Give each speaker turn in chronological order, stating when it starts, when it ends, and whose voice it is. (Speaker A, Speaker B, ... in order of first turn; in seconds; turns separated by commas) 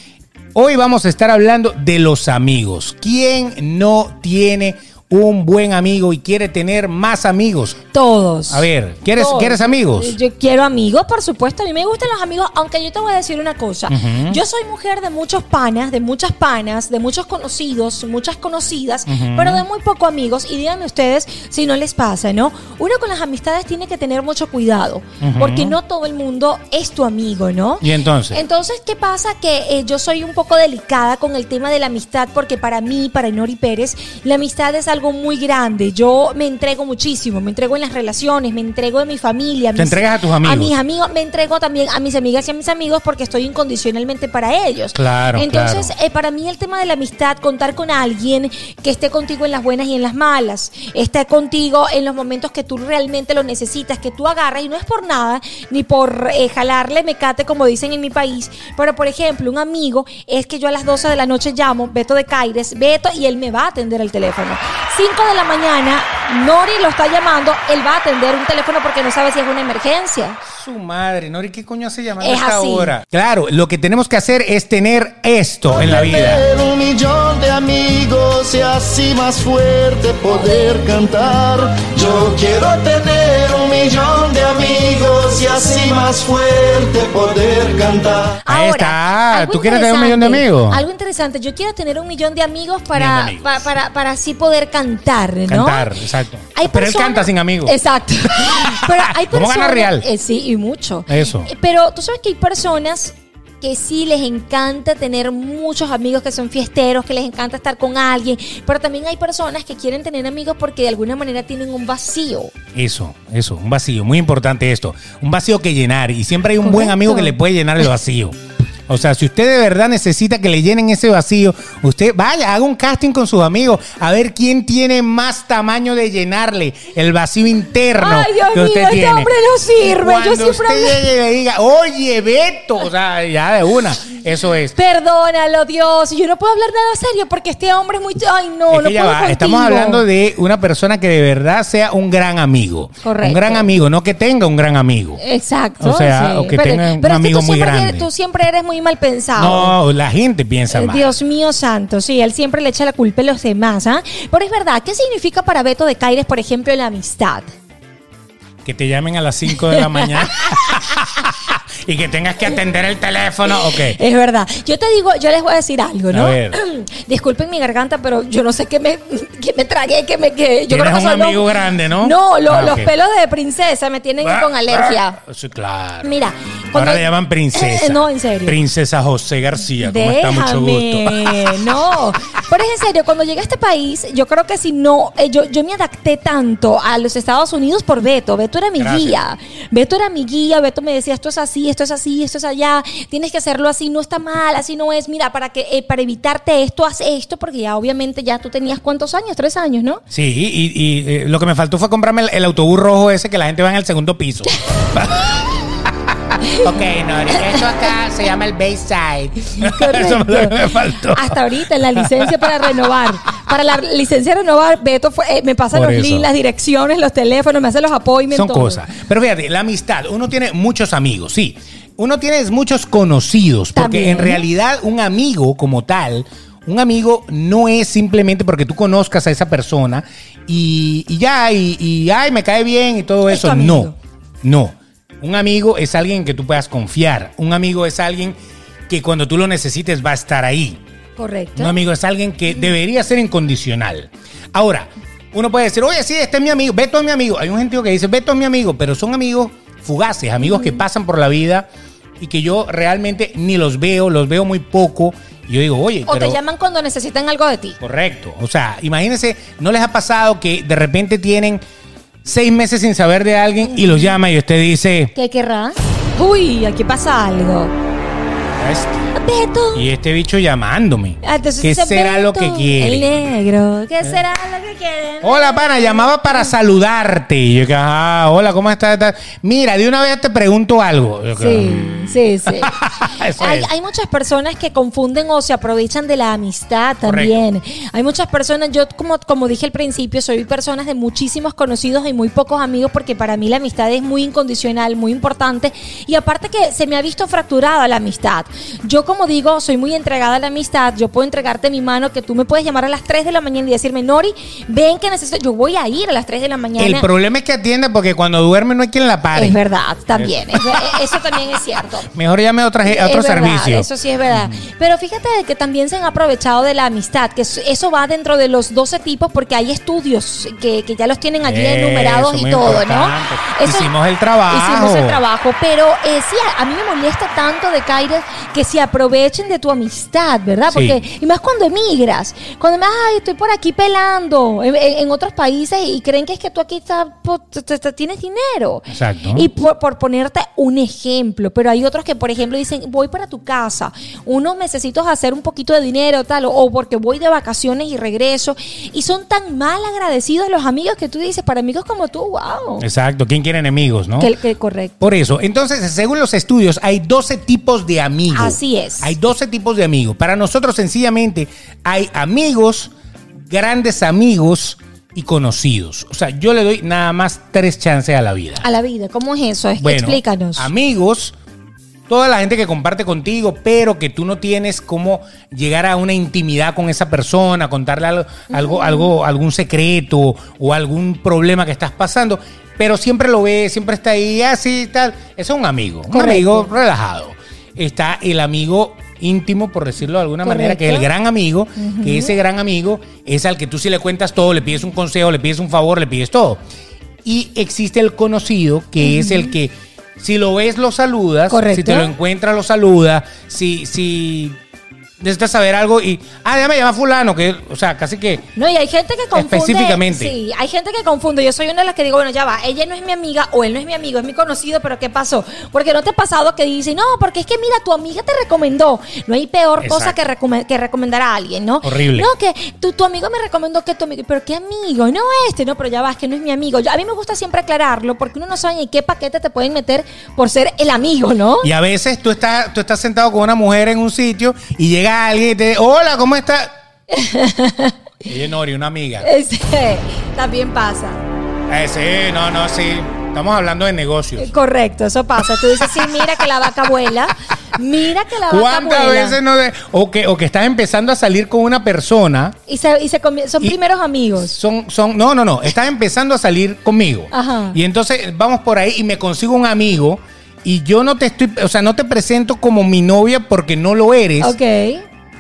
Speaker A: 0.6-7.8, Speaker B: 7.9-70.4, Speaker A: 8.5-10.2, Speaker A: 13.9-14.4, Speaker A: 19.1-19.6, Speaker A: 25.2-25.8, Speaker A: 27.8-28.4, Speaker A: 39.8-40.8, Speaker A: 45.0-45.9, Speaker A: 70.5-76.4, Speaker B: 72.2-72.9, Speaker C: 75.7-88.4, Speaker B: 80.3-80.8, Speaker B: 88.4-95.9, Speaker A: 88.5-90.8, Speaker A: 92.9-93.6, Speaker A: 95.5-97.8, Speaker B: 96.5-112.5, Speaker A: 98.4-100.1, Speaker A: 101.1-101.5, Speaker A: 112.7-118.4, Speaker B: 116.6-117.3, Speaker A: 118.9-134.8, Speaker B: 128.0-131.0, Speaker B: 134.8-140.1, Speaker A: 138.7-145.2, Speaker B: 143.0-143.7, Speaker B: 145.2-149.8, Speaker A: 145.8-148.1, Speaker A: 149.4-151.2, Speaker B: 150.7-157.5, Speaker A: 158.7-164.0, Speaker B: 159.5-161.0, Speaker B: 163.5-175.2, Speaker A: 166.1-166.6, Speaker A: 170.7-172.9, Speaker A: 174.2-176.2, Speaker B: 176.0-178.6, Speaker A: 176.7-181.6, Speaker B: 179.8-200.0, Speaker A: 188.8-189.2, Speaker A: 200.1-211.4, Speaker B: 206.4-206.8, Speaker B: 207.3-207.8, Speaker B: 209.5-218.8, Speaker A: 212.0-212.6, Speaker A: 215.7-216.3, Speaker A: 218.3-233.9, Speaker B: 223.8-224.5, Speaker B: 233.3-233.9, Speaker A: 234.4-238.4, Speaker A: 238.9-240.8, Speaker B: 241.2-241.8, Speaker A: 241.6-251.7, Speaker B: 250.4-250.8, Speaker A: 252.2-256.4, Speaker B: 256.1-257.8, Speaker A: 257.8-261.6, Speaker A: 262.2-265.1, Speaker B: 263.6-264.1, Speaker B: 265.1-267.7, Speaker A: 268.6-269.1, Speaker B: 269.1-269.9, Speaker A: 269.7-273.1, Speaker B: 271.2-276.5, Speaker A: 275.2-283.7, Speaker B: 281.4-282.7, Speaker B: 283.4-307.1, Speaker A: 287.0-287.4, Speaker A: 306.8-309.6, Speaker B: 309.3-312.1, Speaker A: 310.1-311.1, Speaker A: 312.1-314.7, Speaker B: 312.8-323.9, Speaker A: 321.4-325.2, Speaker B: 324.5-352.8, Speaker A: 330.7-331.0, Speaker A: 338.9-339.5, Speaker A: 352.8-354.3, Speaker B: 354.2-355.0, Speaker A: 355.0-362.9, Speaker B: 358.3-359.1, Speaker A: 363.4-368.6, Speaker B: 368.6-370.7, Speaker A: 369.8-371.4, Speaker A: 372.1-396.6, Speaker B: 378.5-379.1, Speaker B: 386.1-386.7, Speaker B: 390.4-391.1, Speaker B: 391.8-392.4, Speaker A: 397.2-404.6, Speaker B: 399.0-399.5, Speaker B: 401.5-402.1, Speaker A: 405.2-408.5, Speaker B: 408.6-431.7, Speaker A: 409.3-410.4, Speaker A: 419.8-420.2, Speaker A: 421.8-422.3, Speaker A: 431.6-436.7, Speaker B: 437.1-438.0, Speaker A: 438.2-439.3, Speaker B: 439.2-441.2, Speaker A: 441.7-444.5, Speaker B: 444.4-449.4, Speaker A: 445.4-446.4, Speaker A: 448.5-452.6, Speaker B: 452.7-454.6, Speaker A: 454.4-464.6, Speaker B: 457.3-457.8, Speaker B: 464.4-465.1